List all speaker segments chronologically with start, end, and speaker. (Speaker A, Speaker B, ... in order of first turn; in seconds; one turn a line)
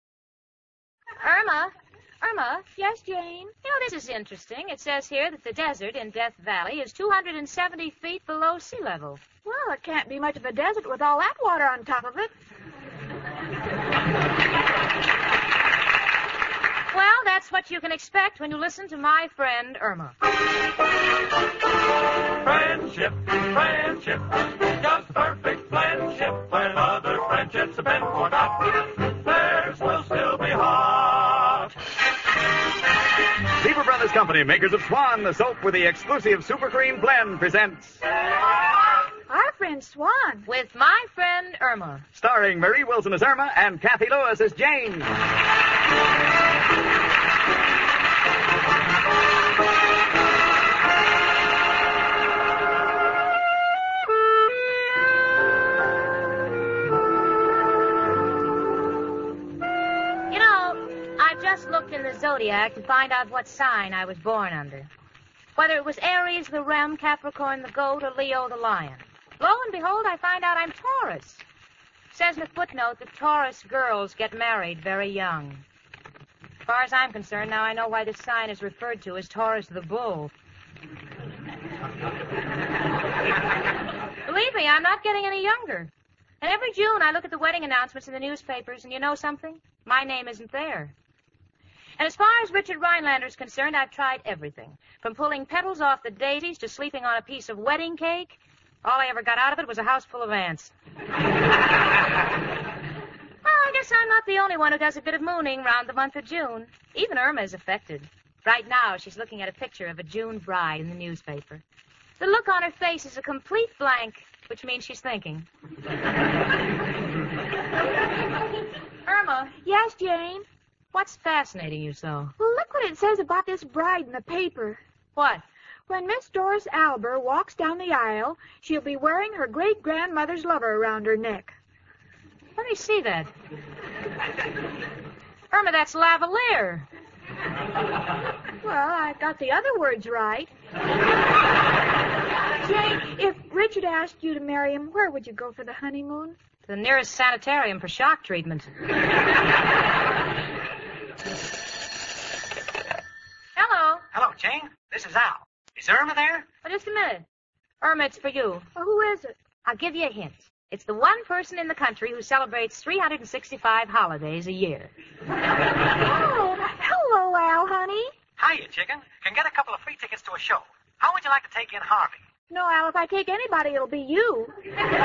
Speaker A: 1.2-2.7
Speaker B: 2.7-3.5
Speaker A: 3.6-9.2
Speaker B: 9.4-12.3
Speaker A: 16.9-20.2
Speaker C: 22.4-24.2
Speaker C: 24.9-28.6
Speaker C: 29.2-31.7
Speaker D: 33.6-38.0
Speaker C: 33.9-34.8
Speaker B: 39.3-40.5
Speaker A: 40.5-42.1
Speaker D: 42.1-45.1
Speaker C: 42.5-44.6
Speaker A: 60.3-64.9
Speaker A: 65.6-71.4
Speaker A: 72.1-75.6
Speaker A: 76.7-80.3
Speaker A: 84.2-90.9
Speaker A: 92.0-100.7
Speaker A: 103.4-111.6
Speaker A: 112.2-115.5
Speaker A: 119.1-119.5
Speaker B: 119.6-120.5
Speaker A: 120.9-122.3
Speaker B: 122.4-124.8
Speaker A: 125.2-125.4
Speaker B: 125.9-131.6
Speaker A: 132.6-133.3
Speaker A: 135.5-136.9
Speaker B: 138.6-140.5
Speaker B: 142.6-146.4
Speaker A: 146.7-148.7
Speaker A: 153.6-154.1
Speaker E: 154.1-156.5
Speaker A: 156.6-157.3
Speaker A: 157.8-158.7
Speaker B: 158.8-159.3
Speaker A: 159.7-164.9
Speaker B: 166.0-168.1
Speaker E: 168.4-172.2
Speaker B: 172.5-174.5